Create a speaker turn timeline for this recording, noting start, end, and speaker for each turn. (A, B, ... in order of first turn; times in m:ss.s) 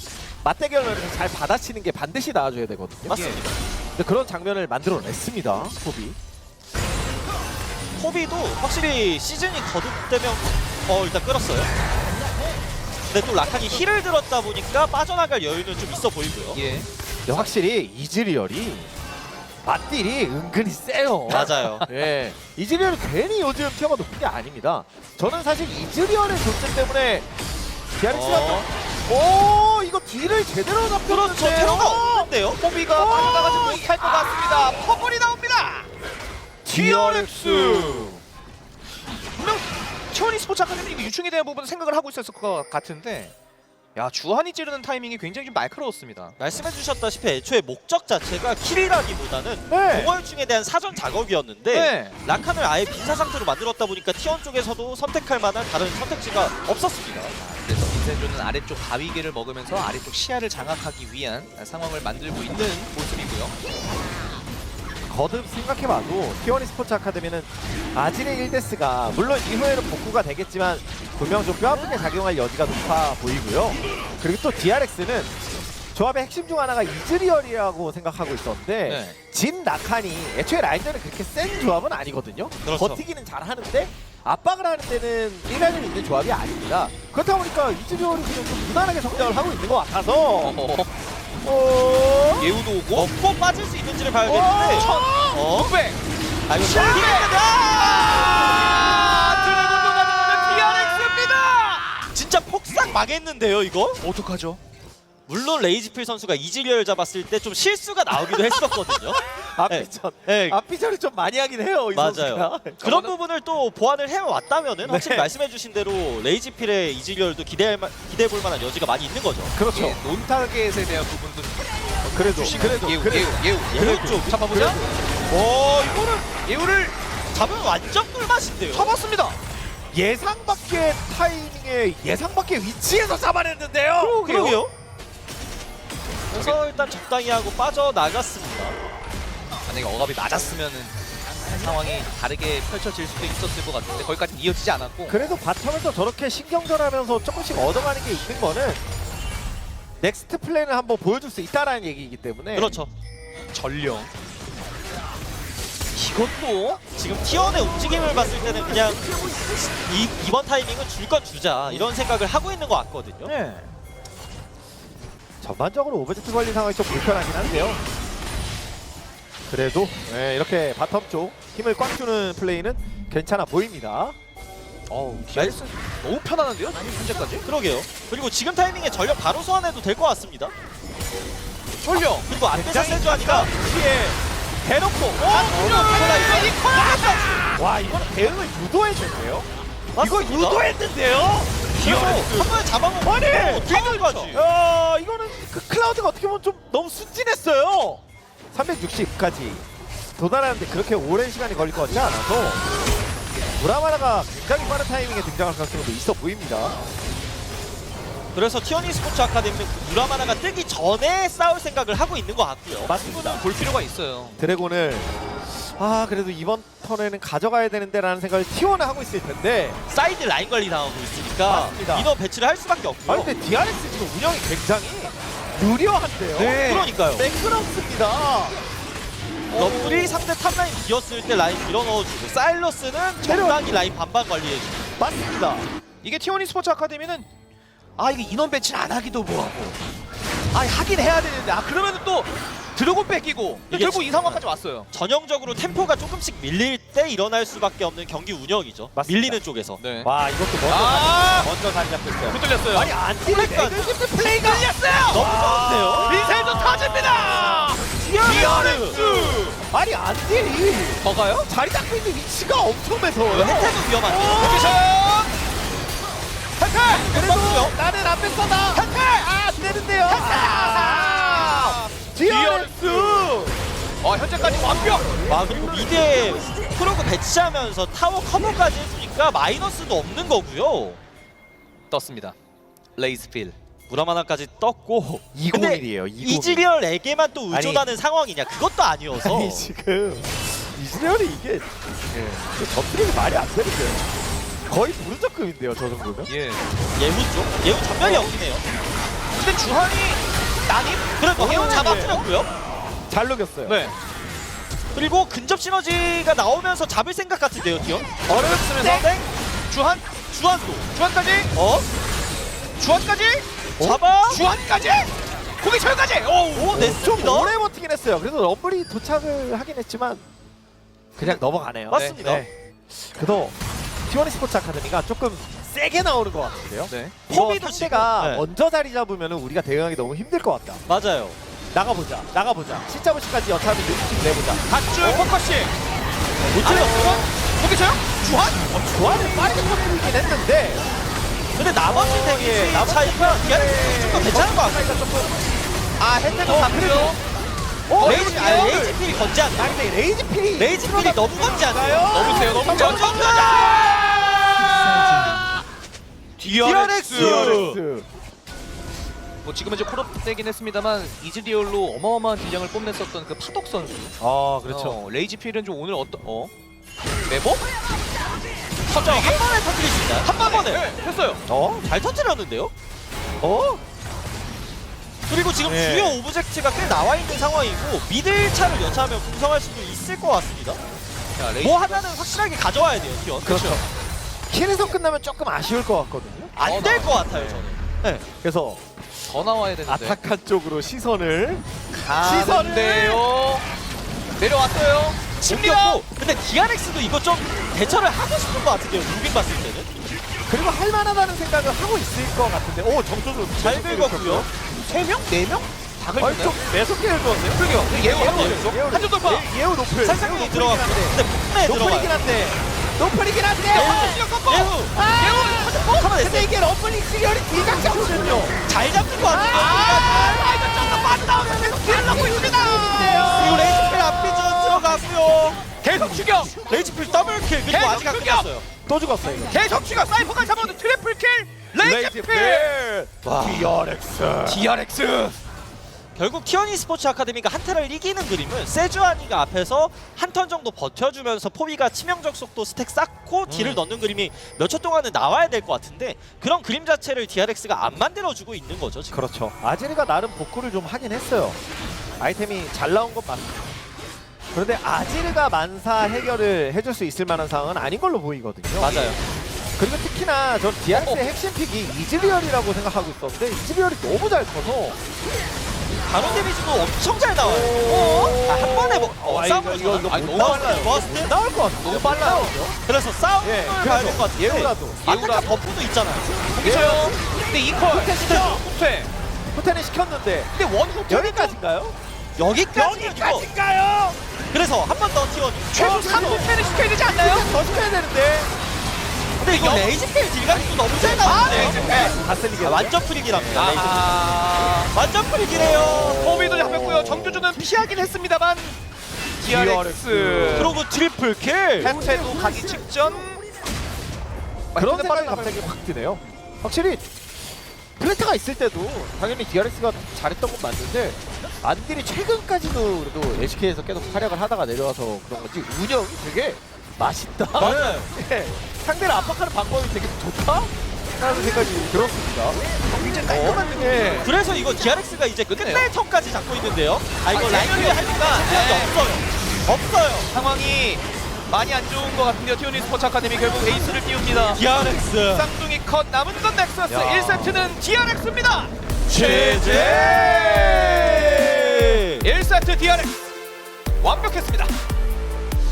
0:00.4-0:03.2 A
0:03.0-0:03.4 B
0:03.1-0:03.6 C
0:03.9-0:06.2 A
0:08.0-0:11.7 C
0:13.1-0:16.6 C
0:16.5-0:17.5 B
0:17.3-0:18.9 A
0:19.6-0:27.3 A
0:21.3-0:21.8 C
0:28.0-0:32.3 A
0:28.1-0:28.7 C
0:31.0-0:32.6 C
0:32.5-0:35.9 B
0:32.9-0:34.3 A
0:36.6-0:38.2 A
0:36.7-0:38.2 B
0:39.4-0:43.3 B
0:43.9-0:46.4 B
0:46.4-0:57.3 C
0:49.7-0:50.1 A
0:51.7-0:52.2 B
0:57.4-1:03.5 B
1:05.1-1:15.3 A
1:15.9-1:30.6 A
1:18.8-1:19.2 B
1:22.6-1:23.0 C
1:30.4-1:30.9 B
1:31.4-1:32.5 A
1:32.3-1:33.1 B
1:32.9-1:35.7 C
1:34.2-1:35.1 A
1:34.3-1:42.0 B
1:36.5-1:37.2 A
1:36.5-1:38.9 C
1:38.3-1:41.4 A
1:42.1-1:44.0 C
1:44.0-1:44.6 B
1:45.3-1:50.6 C
1:48.3-1:53.1 A
1:51.9-1:59.5 C
1:54.8-1:55.3 A
1:59.5-2:00.0 A
1:59.7-2:07.0 B
2:02.1-2:03.4 A
2:03.7-2:04.6 C
2:04.5-2:06.0 A
2:07.3-2:08.9 C
2:08.7-2:09.4 B
2:09.9-2:14.2 A
2:14.0-2:14.6 B
2:14.2-2:14.7 C
2:16.3-2:16.6 B
2:16.3-2:18.8 C
2:19.7-2:20.9 B
2:21.5-2:25.2 B
2:25.1-2:28.8 A
2:30.0-2:32.8 A
2:32.5-2:32.9 C
2:33.5-2:34.1 B
2:35.9-2:36.8 B
2:36.9-2:39.2 C
2:39.8-2:43.3 C
2:43.2-2:43.7 B
2:45.4-2:47.8 A
2:49.5-2:54.2 A
2:54.9-2:57.4 B
2:57.4-3:00.5 C
3:01.8-3:02.3 B
3:02.2-3:03.5 C
3:02.5-3:09.5 A
3:05.2-3:07.4 B
3:05.6-3:07.4 C
3:09.9-3:10.6 C
3:10.0-3:18.0 A
3:11.8-3:14.4 C
3:13.7-3:14.3 B
3:18.5-3:19.6 A
3:20.2-3:22.6 A
3:23.6-3:26.8 A
3:28.3-3:33.0 C
3:32.8-3:33.4 A
3:32.9-3:34.4 B
3:34.4-3:39.8 A
3:39.9-3:43.3 C
3:41.4-3:42.1 A
3:43.0-3:48.6 A
3:46.3-3:47.3 C
3:49.5-3:50.2 B
3:49.5-3:54.9 C
3:53.2-3:53.8 A
3:55.0-3:55.7 A
3:56.0-3:57.2 B
3:58.0-3:59.8 B
4:00.5-4:04.9 B
4:03.7-4:09.8 C
4:08.9-4:09.4 A
4:09.8-4:10.1 B
4:10.0-4:24.8 A
4:10.7-4:11.5 B
4:12.2-4:12.9 B
4:13.2-4:14.0 C
4:14.2-4:15.3 B
4:15.1-4:16.2 C
4:16.0-4:19.6 B
4:18.0-4:19.0 C
4:21.0-4:21.5 B
4:23.3-4:24.7 C
4:24.1-4:25.3 B
4:26.6-4:27.2 B
4:27.0-4:33.6 A
4:27.0-4:27.8 C
4:28.7-4:29.3 B
4:30.0-4:33.5 B
4:34.0-4:35.2 B
4:34.6-4:36.0 A
4:35.3-4:41.0 C
4:41.9-4:42.3 B
4:43.0-4:43.6 B
4:43.9-4:49.7 C
4:45.3-4:46.6 A
4:47.5-4:47.9 A
4:49.1-4:56.3 A
4:56.3-4:56.6 B
4:57.0-4:58.6 C
4:58.0-4:58.3 B
4:59.4-5:02.2 B
5:01.2-5:02.5 C
5:01.4-5:02.1 A
5:03.1-5:03.8 A
5:03.6-5:03.9 B
5:04.9-5:09.3 C
5:08.3-5:09.1 A
5:08.3-5:09.1 B
5:09.7-5:10.0 B
5:10.3-5:10.9 C
5:10.9-5:11.5 B
5:11.5-5:11.9 C
5:12.8-5:13.4 B
5:13.8-5:14.0 A
5:13.8-5:14.4 C
5:14.2-5:16.8 B
5:16.5-5:17.5 C
5:16.7-5:20.2 A
5:21.2-5:23.6 A
5:21.9-5:22.4 C
5:21.9-5:22.2 B
5:24.1-5:30.8 A
5:26.9-5:27.2 B
5:27.3-5:28.4 C
5:30.9-5:31.4 C
5:31.7-5:35.3 A
5:34.7-5:35.7 B
5:36.5-5:37.2 C
5:36.6-5:37.3 A
5:36.6-5:39.7 B
5:38.8-5:40.8 A
5:41.6-5:44.9 C
5:41.8-5:45.3 A
5:46.0-5:47.2 B
5:46.4-5:47.2 A
5:47.9-5:48.9 A
5:47.9-5:48.9 B
5:48.0-5:49.8 C
5:49.6-5:55.3 A
5:50.6-5:53.7 C
5:52.1-5:55.4 B
5:56.4-5:57.6 B
5:56.4-5:57.8 C
5:57.1-5:58.1 A
5:59.4-6:04.1 B
6:04.2-6:05.0 A
6:04.6-6:06.5 B
6:07.3-6:07.7 B
6:08.9-6:09.4 B
6:08.9-6:10.9 C
6:10.2-6:11.4 B
6:11.5-6:11.8 A
6:11.8-6:12.7 C
6:13.4-6:13.8 A
6:15.3-6:20.8 C
6:15.6-6:16.2 A
6:21.4-6:22.2 B
6:21.6-6:23.7 C
6:23.4-6:23.8 B
6:23.4-6:23.8 A
6:24.5-6:26.5 A
6:26.6-6:28.2 C
6:26.6-6:27.6 B
6:28.2-6:28.8 A
6:29.2-6:30.2 B
6:29.9-6:33.2 A
6:32.0-6:33.6 B
6:34.4-6:36.0 B
6:35.4-6:39.9 C
6:40.5-6:44.5 A
6:43.6-6:44.5 C
6:44.8-6:46.6 B
6:46.2-6:54.2 A
6:47.5-6:49.5 B
6:47.9-6:48.7 C
6:50.0-6:52.2 C
6:53.7-6:56.3 B
6:53.7-6:54.9 C
6:54.9-6:58.6 A
6:56.0-6:56.5 C
6:58.6-7:00.4 C
6:59.3-7:04.9 A
6:59.5-7:03.8 B
7:03.1-7:05.6 C
7:05.8-7:06.6 B
7:06.6-7:08.7 C
7:07.6-7:08.5 B
7:08.9-7:09.6 A
7:09.5-7:12.8 B
7:11.8-7:14.7 A
7:13.2-7:13.7 C
7:14.4-7:15.4 B
7:16.2-7:29.2 C
7:23.5-7:23.8 A
7:29.1-7:31.6 A
7:32.2-7:33.6 A
7:34.5-7:39.2 A
7:38.8-7:39.2 C
7:39.8-7:45.0 A
7:40.9-7:41.2 B
7:46.0-7:51.3 C
7:46.2-7:46.4 A
7:47.4-7:52.8 A
7:47.7-7:48.4 B
7:49.8-7:51.0 B
7:51.7-7:52.6 B
7:52.8-7:56.4 C
7:53.4-7:55.0 A
7:55.0-7:55.6 B
7:56.5-7:59.1 B
7:56.6-7:57.2 A
7:57.8-7:58.6 A
7:58.2-7:58.5 C
7:59.5-8:00.5 A
8:00.5-8:01.6 B
8:01.0-8:02.0 A
8:02.4-8:03.5 C
8:02.7-8:04.2 A
8:04.5-8:05.7 C
8:05.7-8:07.5 B
8:05.7-8:08.5 A
8:09.4-8:11.8 C
8:09.5-8:10.0 B
8:11.0-8:12.2 B
8:11.2-8:13.7 A
8:12.6-8:14.1 C
8:13.5-8:14.9 B
8:14.9-8:16.2 C
8:15.5-8:17.5 A
8:16.1-8:18.8 B
8:19.4-8:20.8 B
8:19.4-8:20.7 A
8:20.5-8:21.9 C
8:21.8-8:23.4 B
8:24.7-8:25.6 B
8:24.7-8:27.0 A
8:28.0-8:42.6 A
8:37.5-8:38.1 C
8:42.9-8:44.3 B
8:43.2-8:44.3 A
8:44.2-8:50.3 C
8:45.5-8:45.9 B
8:47.3-8:48.9 B
8:50.3-9:03.2 B
8:54.5-8:55.5 C
8:56.9-8:57.7 A
8:59.1-9:02.3 C
8:59.6-9:01.4 A
9:04.0-9:04.7 B